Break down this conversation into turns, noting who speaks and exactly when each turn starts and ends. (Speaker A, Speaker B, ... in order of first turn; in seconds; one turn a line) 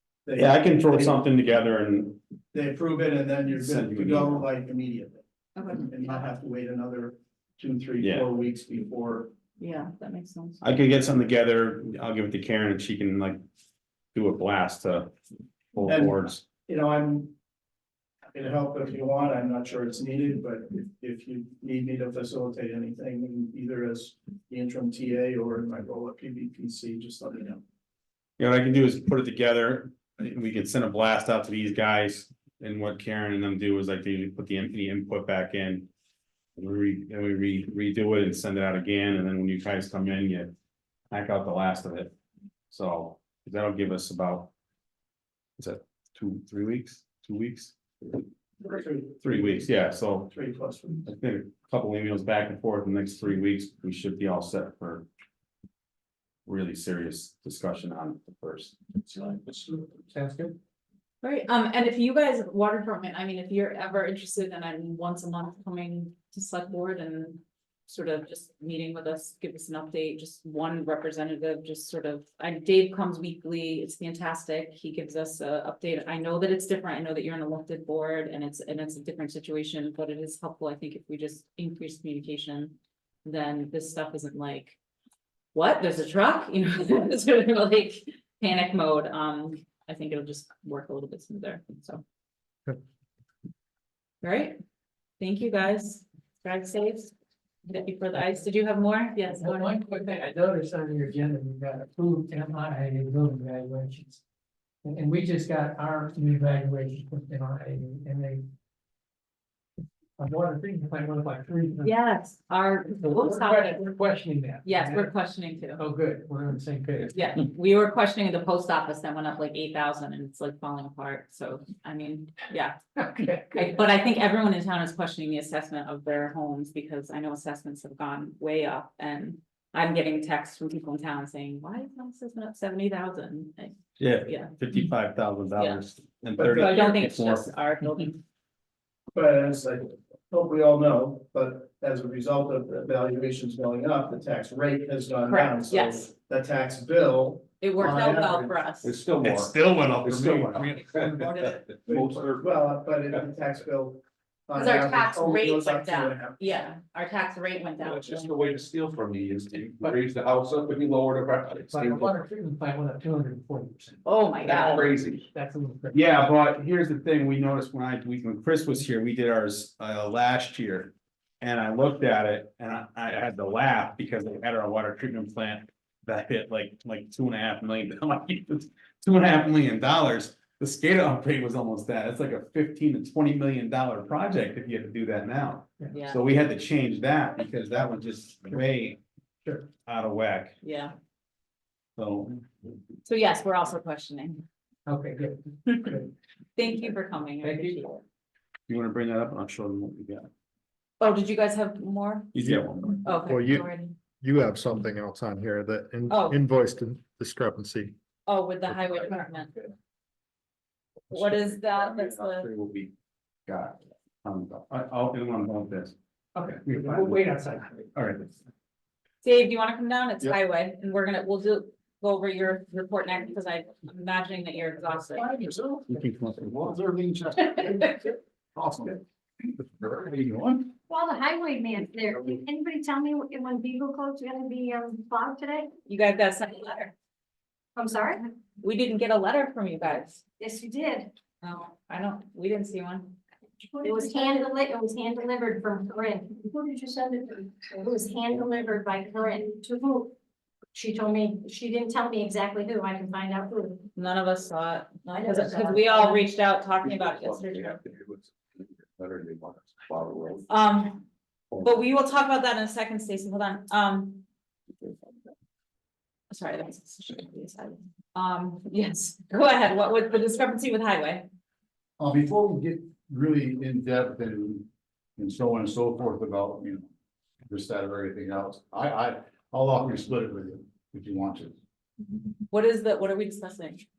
Speaker A: 0.3-1.2
Speaker B: 0.4-2.2
Speaker A: 2.5-9.3
Speaker B: 3.5-4.5
Speaker C: 5.6-5.9
Speaker B: 8.0-8.3
Speaker C: 9.6-10.6
Speaker B: 10.6-13.4
Speaker B: 14.1-15.1
Speaker B: 15.7-16.4
Speaker A: 15.9-17.3
Speaker A: 18.3-27.6
Speaker B: 28.4-35.9
Speaker B: 36.6-40.5
Speaker B: 41.1-42.1
Speaker B: 42.7-44.5
Speaker B: 45.6-48.2
Speaker A: 48.6-49.8
Speaker B: 49.2-50.3
Speaker A: 50.3-51.1
Speaker B: 51.1-55.1
Speaker B: 56.5-59.6
Speaker D: 60.1-60.6
Speaker C: 61.2-84.8
Speaker C: 85.5-92.0
Speaker C: 94.2-94.6
Speaker C: 95.2-97.1
Speaker C: 97.7-99.8
Speaker D: 99.3-104.2
Speaker D: 104.8-108.5
Speaker D: 110.2-111.9
Speaker C: 111.8-114.0
Speaker D: 113.0-115.1
Speaker C: 114.7-115.8
Speaker D: 115.8-117.4
Speaker C: 117.1-122.8
Speaker D: 123.0-123.8
Speaker C: 123.5-134.6
Speaker B: 134.0-137.6
Speaker C: 135.6-135.8
Speaker A: 136.4-136.8
Speaker C: 136.4-138.2
Speaker A: 139.1-148.5
Speaker C: 145.3-146.1
Speaker C: 147.6-149.0
Speaker E: 148.0-152.6
Speaker B: 149.3-150.8
Speaker A: 151.9-156.6
Speaker C: 154.5-158.4
Speaker E: 157.8-162.1
Speaker D: 161.7-164.0
Speaker C: 164.1-164.9
Speaker E: 164.4-165.2
Speaker D: 164.7-166.1
Speaker B: 165.9-189.0
Speaker C: 185.9-186.2
Speaker B: 189.8-190.6
Speaker C: 190.6-190.9
Speaker B: 192.0-192.5
Speaker C: 193.1-194.4
Speaker D: 194.9-196.1
Speaker C: 195.7-196.0
Speaker C: 196.6-198.0
Speaker D: 197.4-197.9
Speaker B: 198.7-200.3
Speaker C: 201.0-202.4
Speaker B: 202.3-203.0
Speaker C: 203.0-203.9
Speaker F: 203.2-203.7
Speaker F: 204.2-208.0
Speaker C: 206.1-206.4
Speaker C: 208.3-209.5
Speaker C: 211.1-212.5
Speaker B: 211.1-212.9
Speaker B: 213.5-215.9
Speaker D: 216.3-217.9
Speaker B: 216.7-217.2
Speaker B: 217.9-218.3
Speaker C: 219.2-225.2
Speaker G: 225.1-230.7
Speaker B: 225.9-226.5
Speaker H: 230.9-235.7
Speaker C: 235.9-236.9
Speaker H: 237.8-238.2
Speaker C: 238.6-240.2
Speaker H: 240.4-241.1
Speaker C: 241.4-243.2
Speaker H: 243.7-250.1
Speaker C: 243.8-244.3
Speaker H: 250.7-253.9
Speaker C: 254.0-257.8
Speaker H: 255.1-256.2
Speaker E: 256.8-260.5
Speaker C: 260.5-261.0
Speaker C: 261.6-264.2
Speaker C: 266.3-271.3
Speaker G: 272.0-276.9
Speaker G: 277.5-281.6
Speaker C: 282.5-283.9